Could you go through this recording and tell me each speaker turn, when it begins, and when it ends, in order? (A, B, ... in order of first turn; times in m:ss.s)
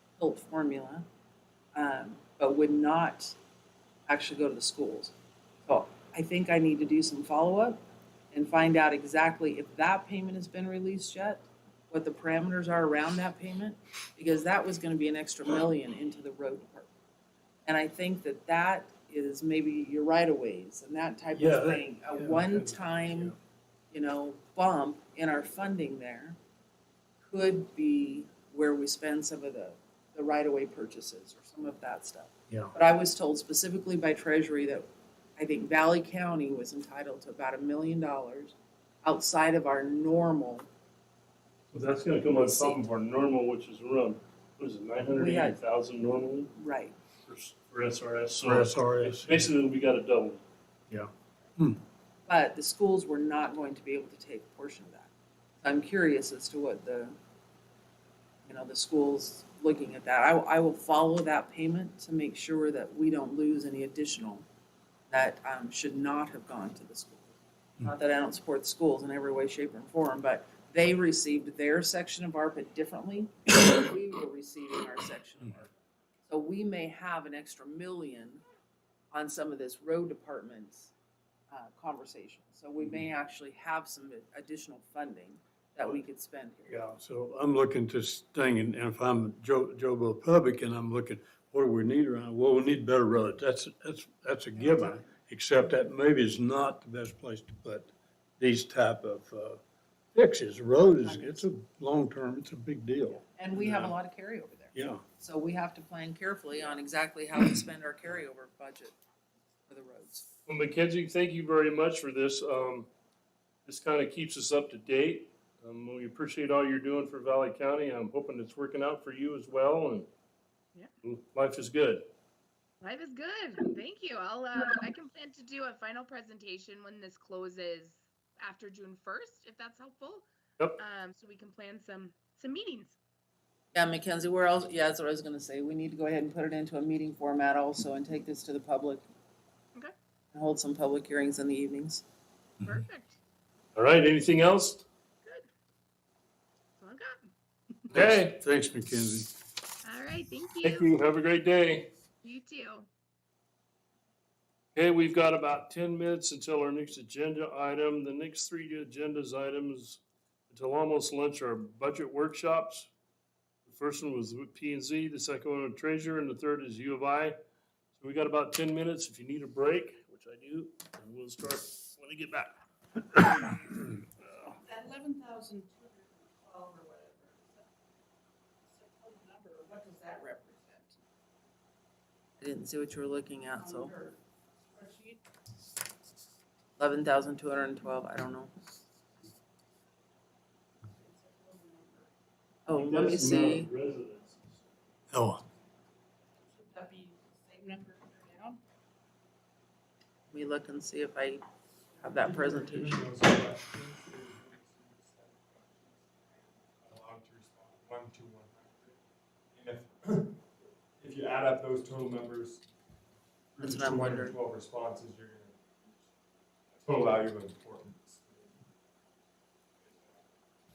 0:00.2-0:01.1 A
0:01.8-0:03.3 A
0:04.1-0:05.1 A
0:05.6-0:07.8 A
0:08.3-0:16.9 A
0:17.6-0:23.3 A
0:21.3-0:23.3 B
0:23.9-0:26.4 A
0:27.2-0:34.8 A
0:35.4-0:40.7 A
0:41.7-0:46.5 C
0:42.3-0:42.8 A
0:45.2-0:45.6 A
0:46.6-0:47.0 A
0:47.2-0:50.4 C
0:48.4-0:49.5 B
0:50.9-0:51.8 B
0:52.3-0:55.1 A
0:55.6-0:57.1 A
0:58.4-1:04.4 A
1:05.1-1:15.7 A
1:16.3-1:18.4 A
1:19.1-1:20.9 A
1:21.5-1:26.8 A
1:26.7-1:39.6 B
1:34.6-1:35.0 A
1:40.1-1:43.9 B
1:40.8-1:41.4 A
1:43.4-1:49.0 A
1:44.7-1:45.0 B
1:49.7-1:50.3 A
1:50.4-1:52.9 C
1:53.7-2:00.1 C
2:01.0-2:02.1 C
2:02.8-2:10.2 D
2:10.8-2:13.0 D
2:13.7-2:19.0 A
2:20.3-2:22.0 A
2:22.6-2:23.2 D
2:23.8-2:24.8 C
2:26.8-2:28.0 D
2:27.9-2:28.3 C
2:27.9-2:29.4 B
2:29.8-2:30.9 D
2:30.6-2:31.9 C
2:32.2-2:32.9 D
2:34.8-2:42.9 C
2:43.6-2:47.4 C
2:47.9-2:54.5 C
2:54.6-2:57.6 E
2:58.7-3:01.0 E
3:02.4-3:03.9 A
3:03.6-3:04.2 E
3:04.7-3:05.2 E
3:06.8-3:08.5 A
3:10.9-3:12.1 E
3:12.7-3:13.7 A
3:12.8-3:14.5 C
3:15.1-3:15.4 B
3:16.5-3:18.6 E
3:20.3-3:21.4 A
3:22.0-3:23.0 A
3:22.2-3:29.0 F
3:29.5-3:30.4 F
3:31.0-3:32.6 F
3:33.6-3:36.0 F
3:33.6-3:34.3 A
3:36.7-3:38.7 F
3:39.8-3:40.2 F